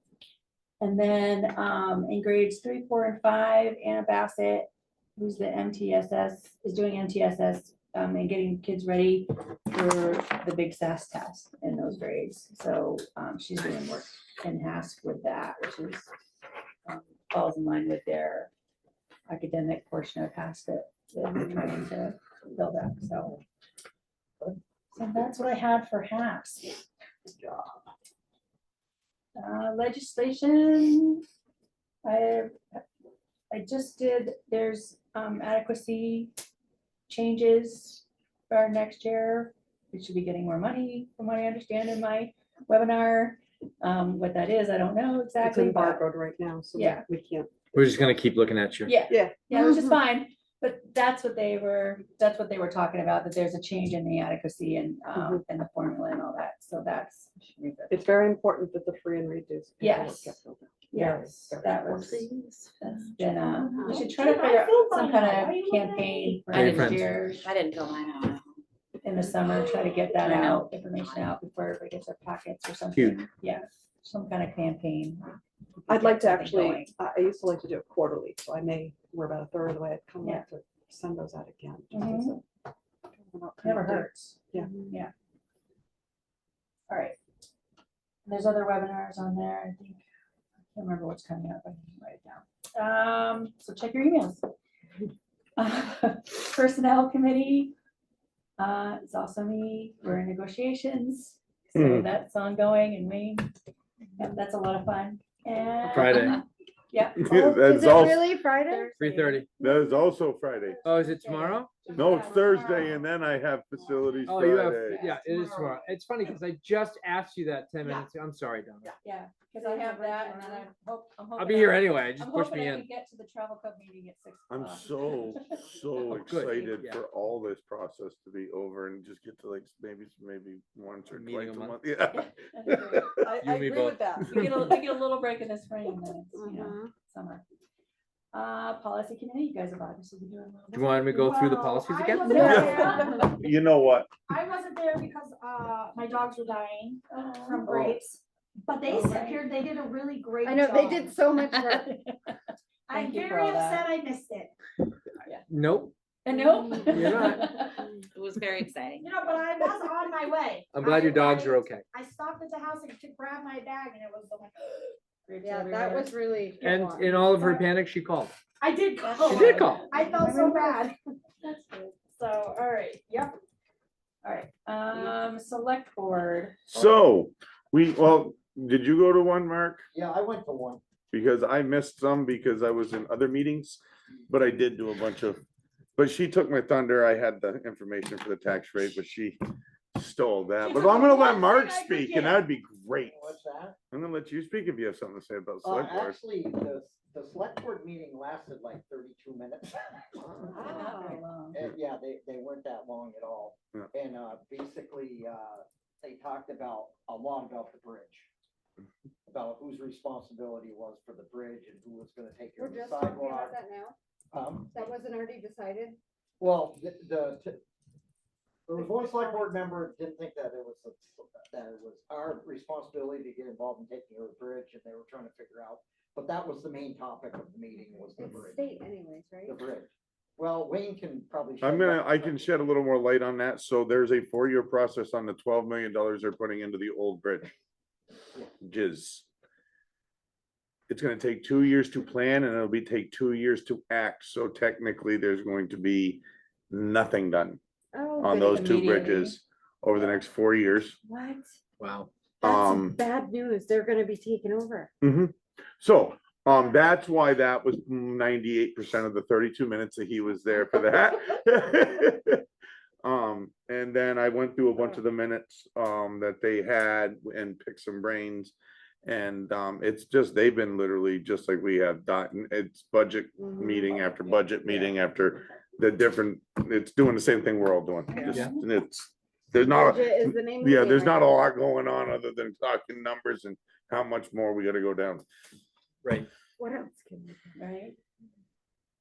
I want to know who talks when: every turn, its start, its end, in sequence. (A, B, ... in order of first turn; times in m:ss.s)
0:00.8-0:16.1 A
0:16.9-0:18.5 A
0:19.3-0:23.4 A
0:24.9-0:26.8 A
0:27.3-0:27.8 B
0:29.4-0:31.2 A
0:32.0-0:32.8 A
0:33.5-0:36.3 A
0:37.1-0:46.0 A
0:45.4-0:47.5 B
0:46.7-0:47.0 A
0:47.7-0:49.0 C
0:48.9-0:58.0 A
0:49.1-0:49.4 B
0:55.2-0:55.4 B
0:57.9-1:02.3 B
0:59.8-1:00.4 A
1:00.9-1:02.3 A
1:02.1-1:02.7 D
1:02.8-1:07.5 A
1:03.6-1:06.7 E
1:06.5-1:07.1 C
1:06.8-1:08.6 D
1:09.0-1:16.9 A
1:09.9-1:11.3 D
1:13.0-1:13.2 C
1:15.9-1:22.4 B
1:21.9-1:22.4 A
1:23.1-1:24.7 B
1:23.6-1:25.1 A
1:26.9-1:27.2 A
1:28.2-1:30.0 A
1:30.7-1:34.4 A
1:35.6-1:37.7 A
1:38.6-1:43.5 A
1:41.8-1:42.1 F
1:44.2-1:47.2 A
1:45.9-1:46.4 C
1:47.2-1:48.3 F
1:47.2-1:49.0 G
1:48.7-1:49.5 A
1:49.0-1:49.5 C
1:49.6-1:50.9 F
1:50.8-1:51.8 C
1:51.3-1:52.7 A
1:51.9-1:55.1 F
1:54.3-1:58.9 C
1:54.7-1:55.8 A
1:59.0-2:05.6 A
1:59.7-2:00.6 G
2:01.4-2:02.9 C
2:04.5-2:13.3 F
2:06.0-2:07.0 C
2:11.1-2:11.8 C
2:12.1-2:13.4 A
2:13.2-2:14.6 B
2:13.4-2:14.7 C
2:14.2-2:17.4 A
2:16.4-2:16.9 G
2:18.3-2:21.3 A
2:20.7-2:22.6 C
2:21.1-2:23.3 E
2:22.2-2:23.3 A
2:22.4-2:24.1 F
2:24.3-2:31.1 E
2:27.1-2:27.9 A
2:27.7-2:28.0 F
2:28.8-2:29.4 A
2:30.4-2:31.9 G
2:31.4-2:32.3 A
2:32.9-2:34.5 E
2:32.9-2:33.9 A
2:35.5-2:35.9 C
2:36.2-2:37.9 A
2:36.3-2:36.8 G
2:36.9-2:37.5 C
2:37.1-2:37.6 E
2:37.8-2:38.0 G
2:38.1-2:39.0 D
2:39.0-2:45.0 E
2:40.7-2:41.8 C
2:45.3-2:46.1 A
2:45.4-2:47.2 G
2:46.6-2:48.3 C
2:47.0-2:47.7 A
2:48.6-2:50.9 E
2:49.0-2:50.9 A
2:49.2-2:49.8 C
2:51.4-2:51.9 A
2:52.1-2:53.4 E
2:54.2-2:56.7 A
2:56.7-2:59.8 F
2:59.9-3:00.8 H
3:01.1-3:05.4 F
3:06.0-3:09.4 F
3:09.9-3:13.4 F
3:10.6-3:12.4 E
3:13.0-3:13.8 H
3:13.9-3:16.2 F
3:15.6-3:28.3 H
3:20.2-3:20.6 F
3:20.5-3:21.2 G
3:20.6-3:21.6 A
3:29.3-3:33.5 H
3:32.6-3:34.0 G
3:34.3-3:34.7 H
3:34.7-3:36.0 G
3:36.4-3:37.6 H
3:38.7-3:48.7 H
3:48.1-3:49.7 G
3:49.5-3:52.5 H
3:51.6-3:57.5 F
3:58.6-3:59.2 F
4:00.9-4:07.6 F
4:07.9-4:09.0 G
4:08.2-4:11.0 F
4:08.5-4:09.4 A
4:11.1-4:11.5 G
4:11.8-4:12.1 C
4:12.4-4:13.0 F
4:12.4-4:14.9 G
4:15.0-4:22.4 F
4:23.0-4:28.5 F
4:29.0-4:45.2 F
4:33.4-4:35.0 G
4:38.1-4:38.6 A
4:39.6-4:41.3 G
4:46.0-4:46.3 C
4:46.6-4:47.6 G
4:47.6-4:48.0 A